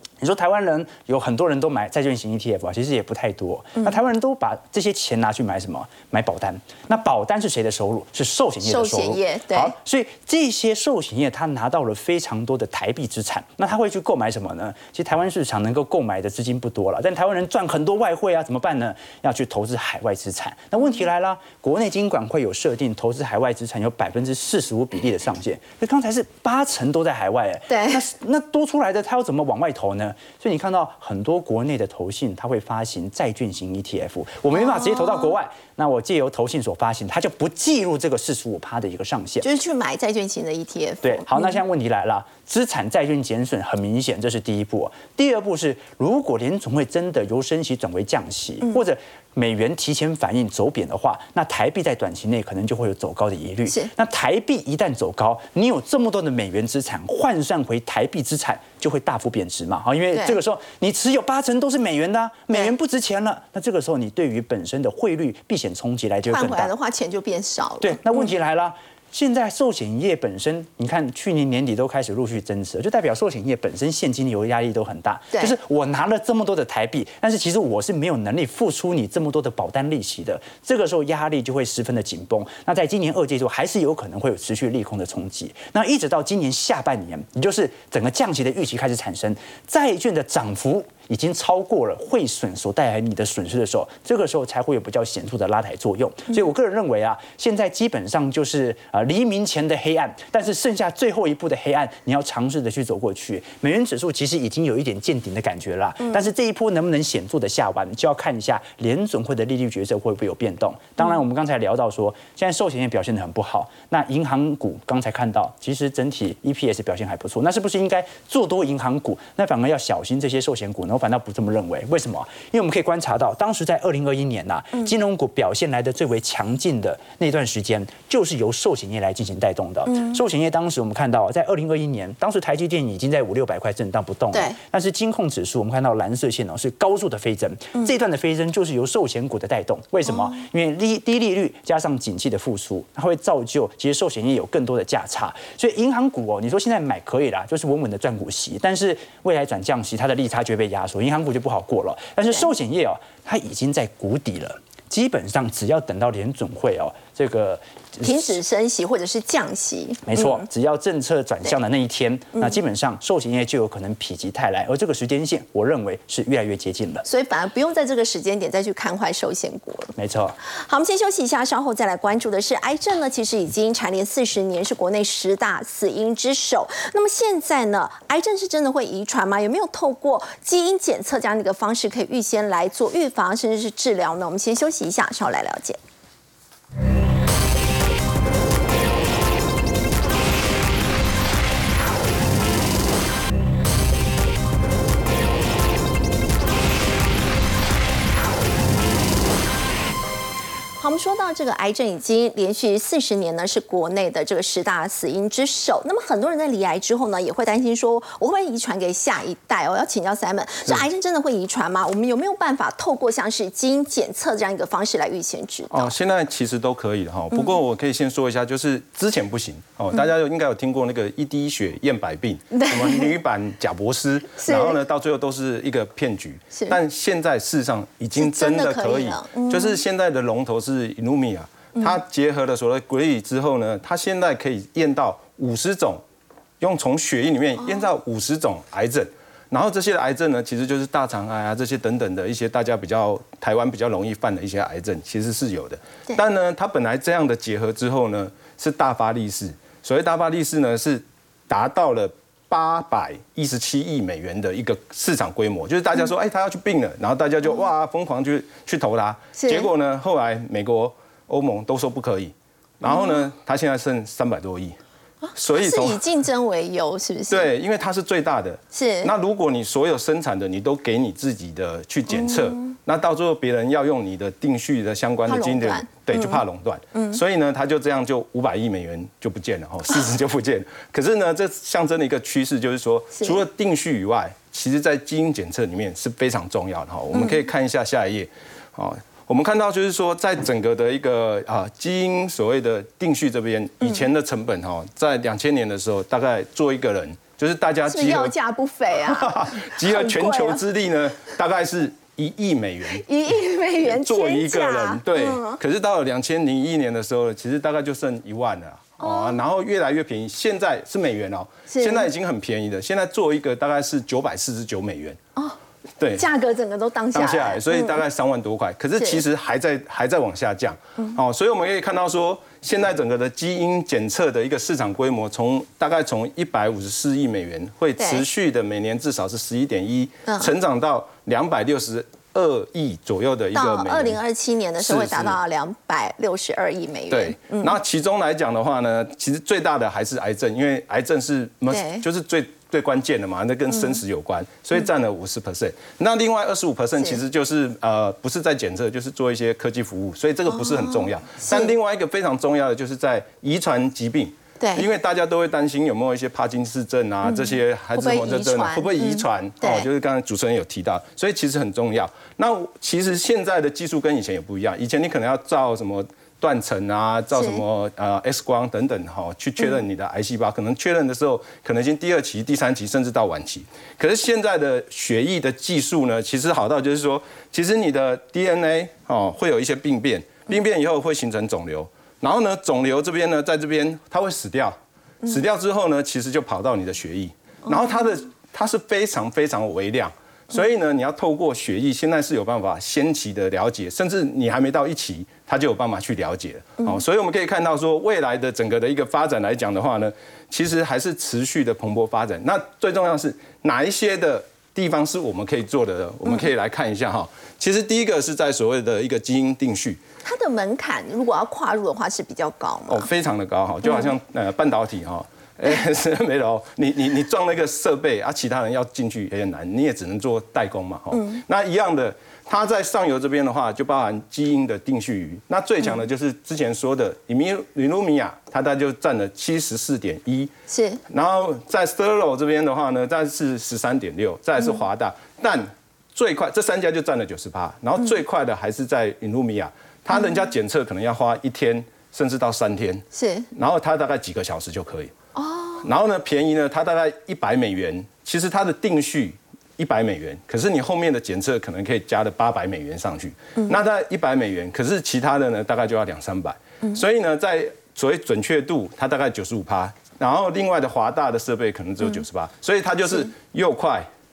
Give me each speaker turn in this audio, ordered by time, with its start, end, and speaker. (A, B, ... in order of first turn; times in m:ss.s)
0:00.2-0:39.5 A
0:08.6-0:09.7 B
0:27.7-0:28.0 B
0:34.5-0:35.4 B
0:39.4-0:41.5 B
0:41.0-1:06.7 A
1:06.3-1:08.2 B
1:07.8-2:38.4 A
2:14.3-2:14.6 B
2:38.0-2:40.4 B
2:40.1-2:47.0 A
2:47.0-2:50.0 B
2:50.0-2:50.4 A
2:50.6-3:05.8 B
3:20.8-3:35.9 B
3:35.7-3:56.0 C
3:42.5-3:43.1 B
3:44.4-3:44.8 B
3:48.2-3:49.8 B
3:56.6-4:24.8 C
4:19.4-4:19.7 B
4:22.9-4:23.2 B
4:25.2-4:27.5 B
4:25.4-4:26.0 C
4:27.3-4:58.3 C
4:28.7-4:29.1 B
4:35.3-4:36.4 B
4:36.9-4:37.2 B
4:43.2-4:43.4 B
4:57.9-5:00.6 B
4:59.0-5:03.0 C
5:03.0-5:05.6 B
5:03.8-5:15.2 C
5:09.0-5:09.4 B
5:11.7-5:12.1 B
5:16.0-5:16.3 C
5:16.2-5:18.0 B
5:17.2-5:34.2 C
5:28.0-5:28.2 B
5:33.5-5:37.8 B
5:34.8-5:35.4 C
5:37.1-6:50.0 C
5:41.7-5:42.0 B
5:43.7-5:44.0 B
5:50.5-5:51.7 B
5:54.6-5:54.9 B
5:57.2-5:59.9 B
6:07.4-6:07.6 B
6:50.2-6:53.1 B
6:52.9-7:10.5 C
7:10.7-7:11.0 B
7:11.1-7:25.1 C
7:23.1-7:23.5 B
7:25.4-7:25.9 B
7:25.8-7:44.1 C